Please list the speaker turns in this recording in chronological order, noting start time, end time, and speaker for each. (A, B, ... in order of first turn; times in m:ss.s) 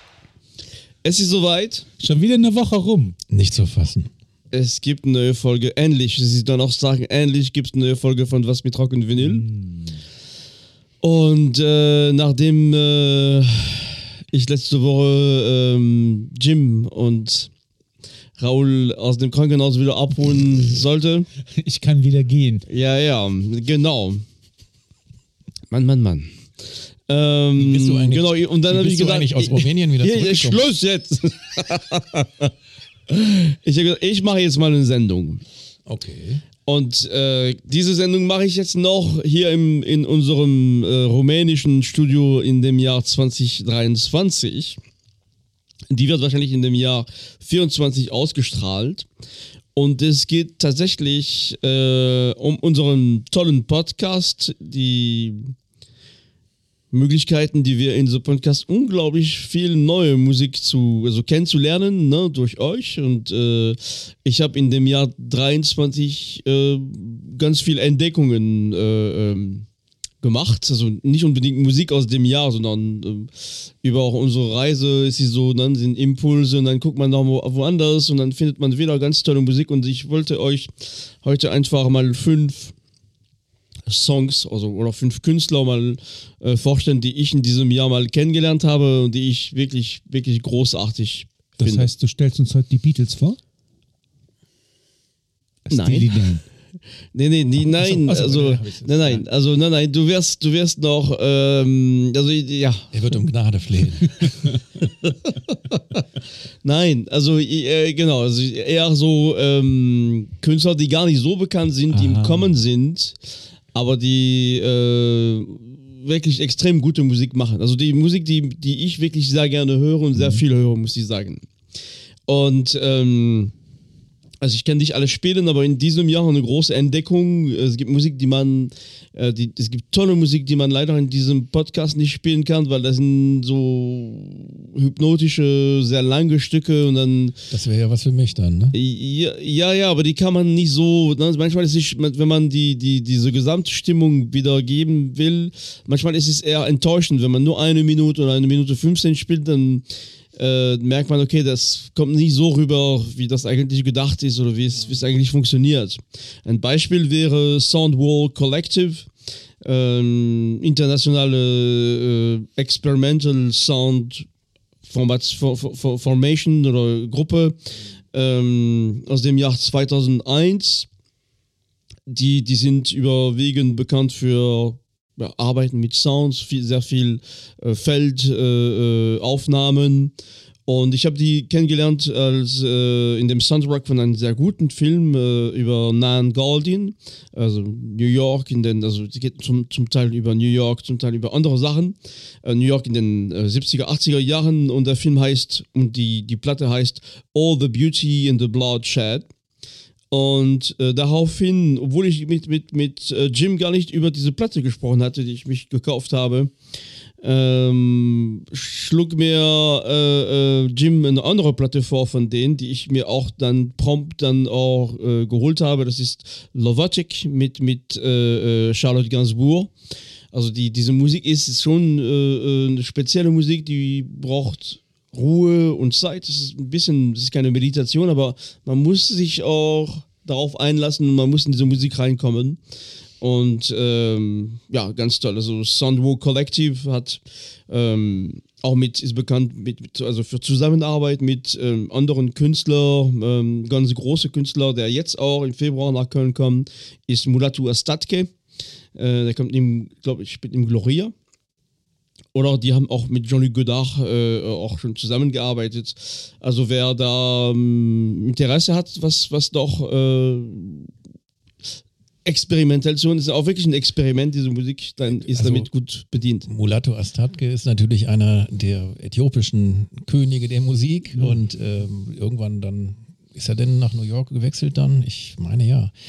0:01.0-0:01.9 A
0:02.0-0:03.2 B
0:03.3-0:04.1 C
0:04.5-0:09.5 A
0:09.2-0:10.0 B
0:11.0-0:17.5 A
0:18.4-0:21.3 A
0:21.6-0:22.6 B
0:22.7-0:24.2 A
0:25.7-0:26.4 A
0:27.1-0:32.5 A
0:27.6-0:30.6 C
0:33.1-0:35.4 A
0:35.8-0:36.4 C
0:36.6-0:44.8 A
0:45.9-0:49.1 A
0:49.7-0:55.5 A
0:56.9-1:09.7 A
1:10.2-1:22.7 A
1:23.9-1:31.9 A
1:31.6-1:33.4 B
1:35.7-1:36.4 B
1:35.7-1:36.1 A
1:37.1-1:42.9 A
1:37.6-1:39.2 B
1:42.9-1:44.2 C
1:45.0-1:46.0 A
1:46.6-1:53.2 A
1:51.9-1:52.5 B
1:53.7-2:01.4 A
2:00.2-2:00.4 B
2:02.3-2:03.5 A
2:04.4-2:17.4 A
2:17.5-2:18.8 C
2:18.7-2:39.1 A
2:39.6-2:44.3 A
2:44.8-2:47.6 A
2:48.1-2:50.9 A
2:52.1-3:00.1 A
3:00.7-3:19.3 A
3:20.1-3:26.5 A
3:27.2-3:39.7 A
3:40.3-3:52.6 A
3:53.2-4:08.3 A
4:09.0-4:11.1 A
4:12.3-4:20.9 A
4:22.2-4:26.5 A
4:25.2-4:25.7 C
4:26.5-4:35.9 C